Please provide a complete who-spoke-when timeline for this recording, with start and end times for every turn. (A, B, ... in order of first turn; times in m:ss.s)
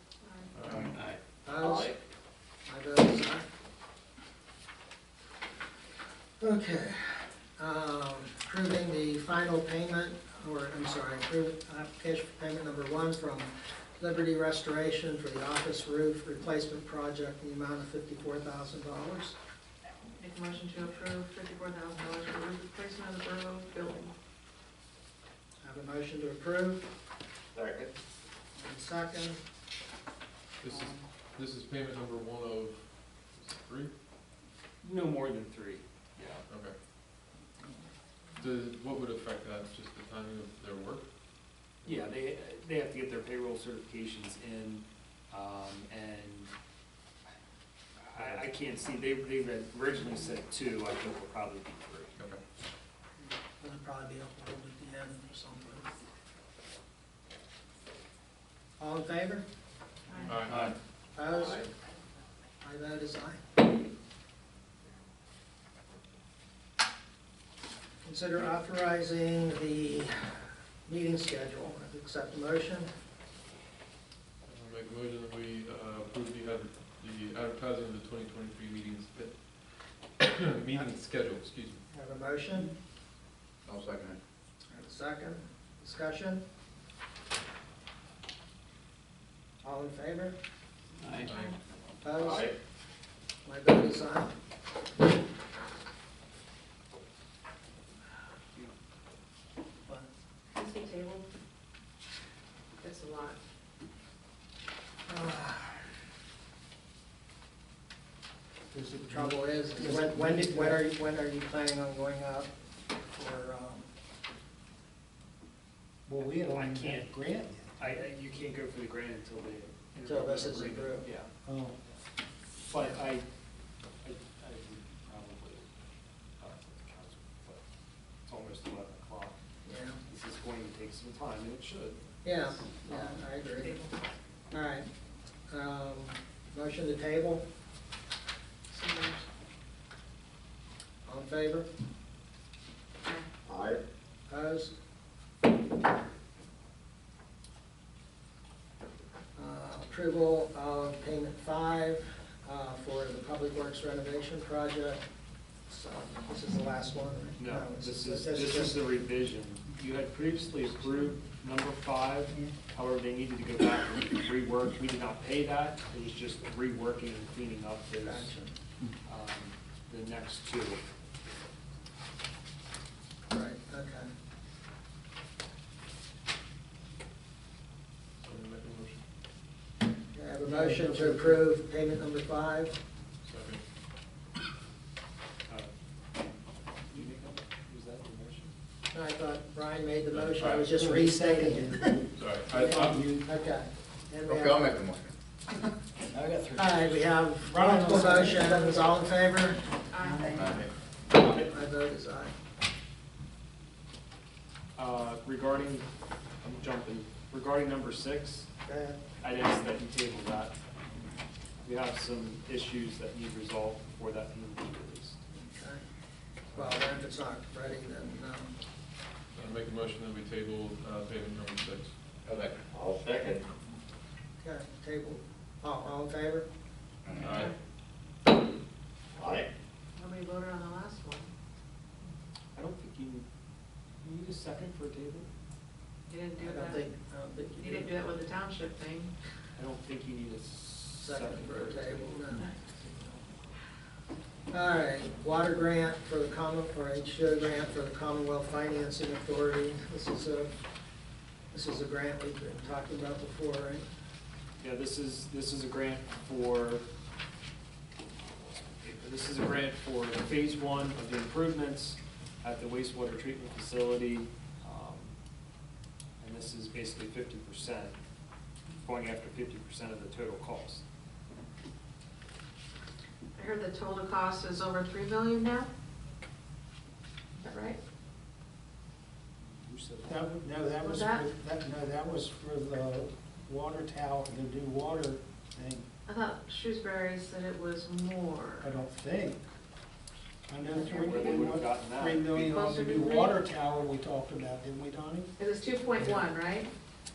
0:00.2-0:00.5 A
0:00.5-0:01.0 B
0:00.7-0:02.0 C
0:01.4-0:01.9 D
0:02.7-0:03.4 D
0:06.4-0:19.4 D
0:20.2-0:24.1 A
0:25.6-0:26.8 D
0:27.6-0:27.9 C
0:28.6-0:29.4 D
0:30.6-0:33.9 B
0:34.8-0:36.4 E
0:36.5-0:36.8 B
0:38.4-0:41.0 B
0:41.8-0:42.1 B
0:41.8-0:46.5 E
0:48.0-0:52.2 E
0:53.6-0:55.9 D
0:58.8-0:59.4 D
1:00.1-1:00.5 A
1:00.2-1:00.7 B
1:00.5-1:00.7 C
1:01.2-1:01.6 D
1:02.6-1:03.4 D
1:08.0-1:12.9 D
1:14.5-1:21.8 B
1:21.9-1:22.7 D
1:23.7-1:24.2 C
1:24.7-1:26.4 D
1:29.6-1:30.4 D
1:31.0-1:31.6 A
1:31.2-1:31.6 B
1:32.0-1:32.5 D
1:32.2-1:32.5 C
1:33.4-1:34.4 D
1:40.5-1:41.3 A
1:42.8-1:43.4 A
1:45.1-1:45.8 D
1:48.7-1:50.9 F
1:49.1-1:52.5 D
1:53.0-1:53.9 D
1:56.1-1:57.8 F
1:56.2-1:57.1 E
1:57.8-2:01.3 E
2:00.0-2:01.1 D
2:01.4-2:01.8 F
2:02.7-2:03.2 E
2:02.7-2:03.0 D
2:04.0-2:05.8 E
2:06.4-2:07.6 E
2:08.2-2:09.4 E
2:09.6-2:10.0 D
2:10.1-2:12.0 E
2:12.2-2:13.8 D
2:12.8-2:13.2 E
2:13.5-2:13.9 A
2:14.5-2:14.9 D
2:15.5-2:17.4 D
2:18.7-2:19.3 A
2:21.0-2:21.7 D
2:23.5-2:23.8 C
2:24.3-2:24.7 D
2:29.4-2:35.0 D
2:35.7-2:38.9 D
2:37.4-2:48.4 E
2:48.0-2:48.5 D
2:49.0-2:50.8 E
2:53.3-2:54.1 D
2:58.2-2:59.0 B
3:00.1-3:02.8 D
3:00.4-3:01.5 F
3:03.2-3:03.6 B
3:05.5-3:08.5 E
3:08.9-3:11.9 D
3:10.1-3:10.7 B
3:10.7-3:13.3 F
3:12.2-3:13.0 B
3:13.2-3:14.7 D
3:14.3-3:15.1 C
3:16.1-3:16.8 F
3:16.6-3:19.6 D
3:17.4-3:19.0 F
3:19.9-3:20.5 A
3:20.0-3:20.6 F
3:20.3-3:20.7 C
3:21.1-3:22.3 D
3:24.8-3:25.9 E
3:26.4-3:28.5 E
3:28.6-3:29.0 D
3:29.2-3:30.6 E
3:31.6-3:35.2 E
3:35.3-3:35.8 D
3:36.5-3:38.5 D
3:39.3-3:42.0 B
3:42.2-3:43.5 C
3:44.4-3:46.5 D
3:47.0-3:47.3 C
3:47.2-3:47.6 A
3:47.2-3:47.5 B
3:49.2-3:49.5 C
3:50.0-3:51.3 A
3:52.6-3:53.3 E
3:54.0-3:55.3 E
3:56.1-3:56.9 A
3:56.4-3:58.0 D
3:57.6-3:59.1 A
3:59.6-4:02.3 E
4:01.0-4:02.5 D
4:04.5-4:10.5 D
4:11.5-4:13.9 D
4:14.6-4:16.8 E
4:18.8-4:25.2 E
4:26.2-4:28.0 E
4:28.8-4:30.8 E
4:33.4-4:35.7 A
4:37.4-4:37.8 A
4:39.4-4:40.4 E
4:40.0-4:45.9 F
4:40.8-4:41.3 A
4:46.1-4:48.7 A
4:48.6-4:49.4 F
4:50.5-4:55.3 F
4:50.7-4:51.5 A
4:50.9-4:52.7 E
4:52.5-4:53.4 A
4:55.4-4:56.7 A